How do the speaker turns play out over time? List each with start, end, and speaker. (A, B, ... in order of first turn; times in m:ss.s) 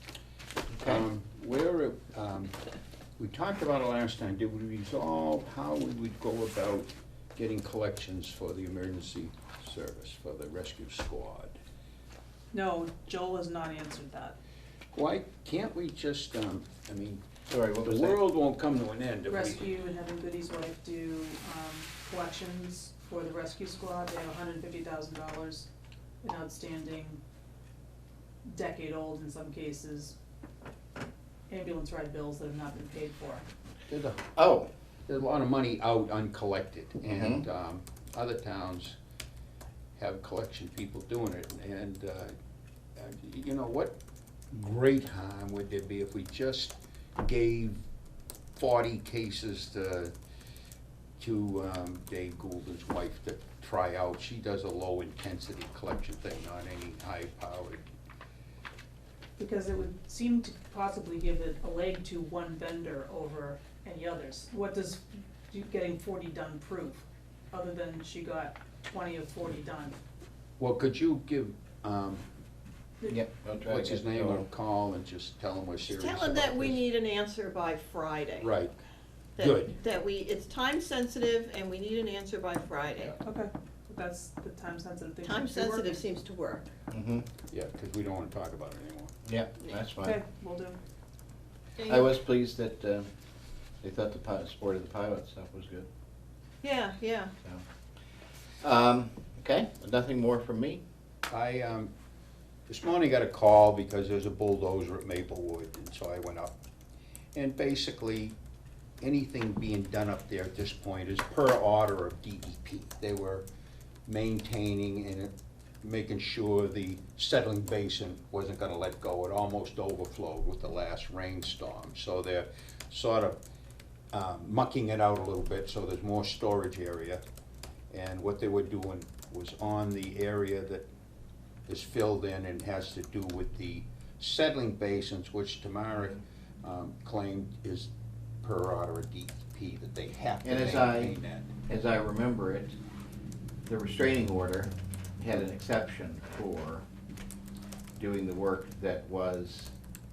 0:00.7-0:01.1 A
0:00.8-0:02.5 B
0:03.2-0:11.6 B
0:12.5-0:14.4 C
0:14.9-0:17.2 B
0:17.5-0:18.2 A
0:17.8-0:19.7 B
0:19.3-0:25.7 C
0:26.2-0:27.2 C
0:28.4-0:30.2 C
0:31.5-0:33.4 C
0:33.9-0:34.2 B
0:34.4-0:34.7 A
0:35.1-0:39.0 B
0:37.1-0:37.4 A
0:40.0-0:42.3 B
0:43.0-0:43.9 B
0:44.5-0:47.8 B
0:48.6-0:50.1 B
0:51.2-0:57.8 B
0:59.4-1:10.0 C
1:10.6-1:12.2 B
1:13.1-1:14.4 A
1:13.6-1:16.8 B
1:15.9-1:18.5 D
1:18.4-1:18.7 B
1:19.4-1:23.2 D
1:19.4-1:19.8 B
1:23.2-1:26.0 C
1:25.2-1:26.7 D
1:26.9-1:27.3 A
1:27.5-1:29.1 B
1:29.3-1:30.2 A
1:30.0-1:30.8 C
1:31.8-1:32.1 D
1:31.9-1:33.1 A
1:33.8-1:35.9 A
1:36.6-1:37.3 D
1:38.6-1:40.8 A
1:41.3-1:41.9 B
1:42.7-1:46.6 B
1:47.4-1:48.3 B
1:49.0-1:53.4 B
1:54.1-2:03.4 B
2:04.1-2:07.2 B
2:07.9-2:10.8 B
2:11.7-2:17.9 B
2:18.4-2:21.5 B
2:20.4-2:21.1 A
2:21.7-2:22.8 A
2:23.7-2:26.9 A
2:28.0-2:29.7 A